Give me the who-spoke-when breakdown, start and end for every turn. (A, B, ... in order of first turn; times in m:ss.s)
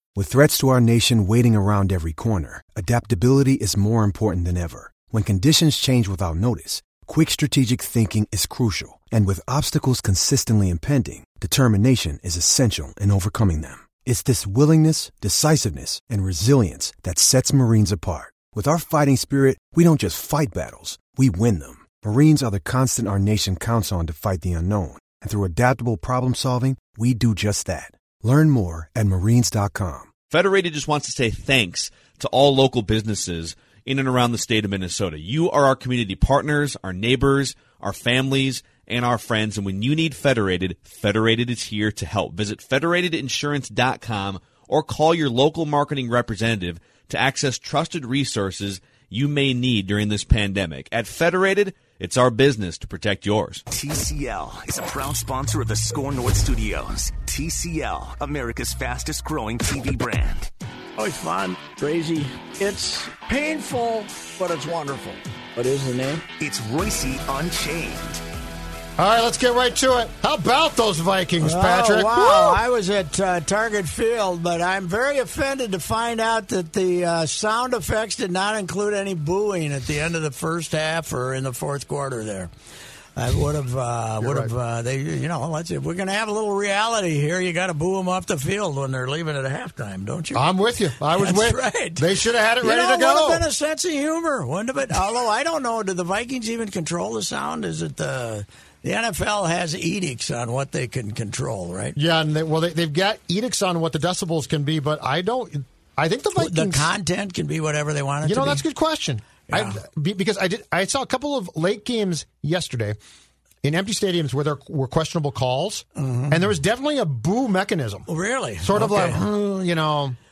0:00.2-0:30.1 A
0:30.3-0:53.6 B
0:53.7-1:00.5 C
1:01.0-1:06.2 D
1:06.4-1:08.2 C
1:09.0-1:12.6 E
1:11.4-1:22.5 D
1:23.1-1:30.5 D
1:24.2-1:24.5 E
1:30.3-1:33.4 E
1:31.1-1:42.0 D
1:41.9-1:46.9 E
1:46.3-1:48.6 D
1:48.2-1:53.0 E
1:49.5-1:49.8 D
1:53.6-1:58.1 E
1:56.0-1:56.4 D
1:58.1-1:59.2 D
1:58.6-2:00.2 E